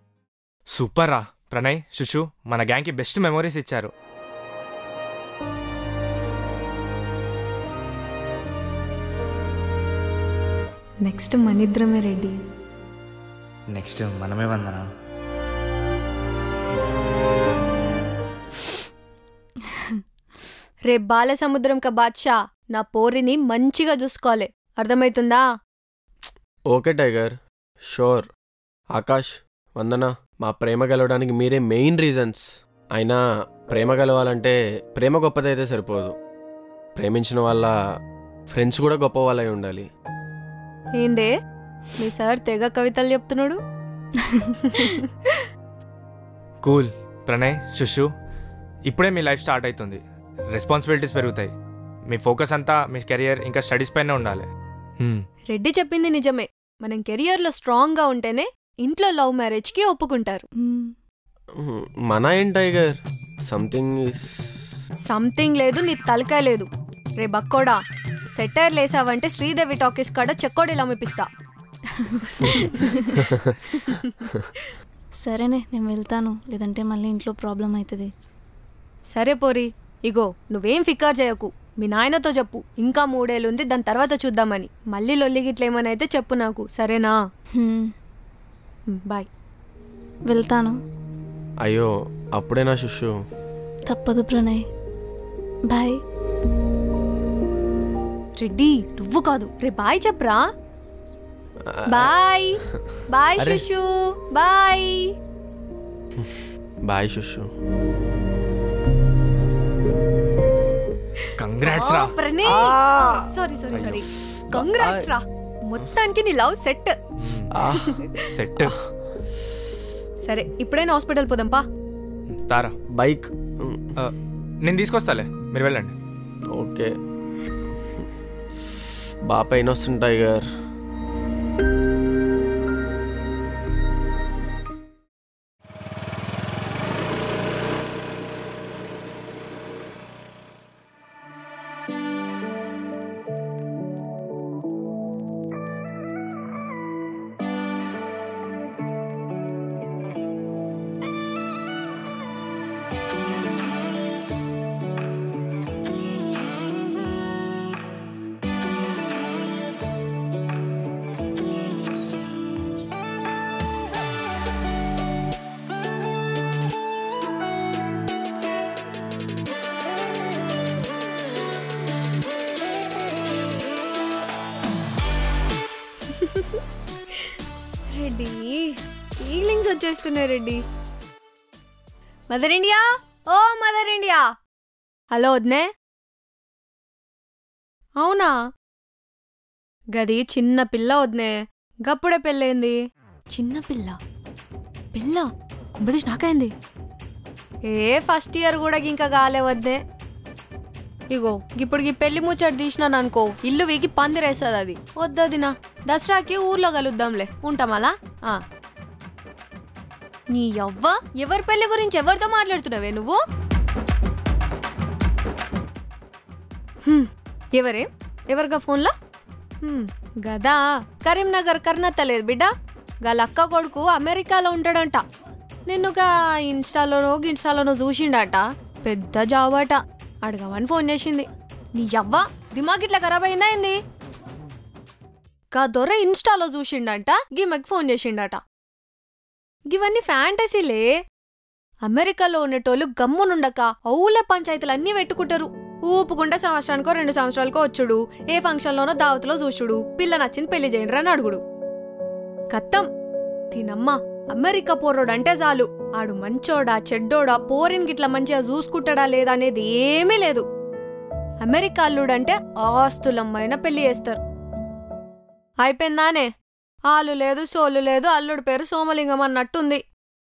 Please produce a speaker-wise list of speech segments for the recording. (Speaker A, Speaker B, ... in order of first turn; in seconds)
Speaker A: 0.7-3.9, 13.7-14.8, 46.6-48.1, 48.9-50.0, 50.5-51.5, 52.1-54.5, 111.4-112.1, 117.2-117.5, 118.3-118.8, 122.3-122.8, 124.0-125.9
Speaker B: 11.1-12.3, 20.9-25.4, 41.0-41.3, 42.0-43.6, 44.7-45.0, 55.5-60.4, 65.1-66.7, 67.2-67.8, 68.4-71.3, 72.4-72.9, 73.8-74.7, 79.1-87.1, 89.0-89.3, 98.4-100.4, 101.9-102.6, 103.1-105.0, 111.6-117.0, 117.7-118.1, 120.3-121.6, 176.2-176.6, 177.9-178.7, 179.2-180.6, 182.3-184.2, 185.1-185.7, 188.0-188.3, 190.0-191.3, 191.9-192.8, 193.3-194.0, 194.9-195.3, 195.8-196.5, 197.7-199.8, 201.1-208.4, 210.3-213.2, 216.9-218.9, 219.6-222.5, 223.1-225.0, 225.7-233.8, 235.5-238.4, 239.7-240.9, 241.9-251.4, 252.5-252.9, 253.5-260.4, 261.4-264.2, 265.6-266.3, 266.9-269.8
Speaker C: 26.7-27.4, 27.9-28.3, 29.0-32.5, 33.0-36.1, 37.0-37.7, 38.5-39.9, 61.6-63.0, 63.5-64.6, 73.3-73.6, 91.6-93.1, 101.7-102.1, 106.2-107.5, 112.5-113.3, 117.5-117.9, 123.0-123.9, 126.5-126.9, 129.3-130.5
Speaker D: 44.2-44.9, 60.6-60.9, 72.0-73.2, 75.2-78.1, 87.6-87.8, 90.3-90.8, 93.9-94.6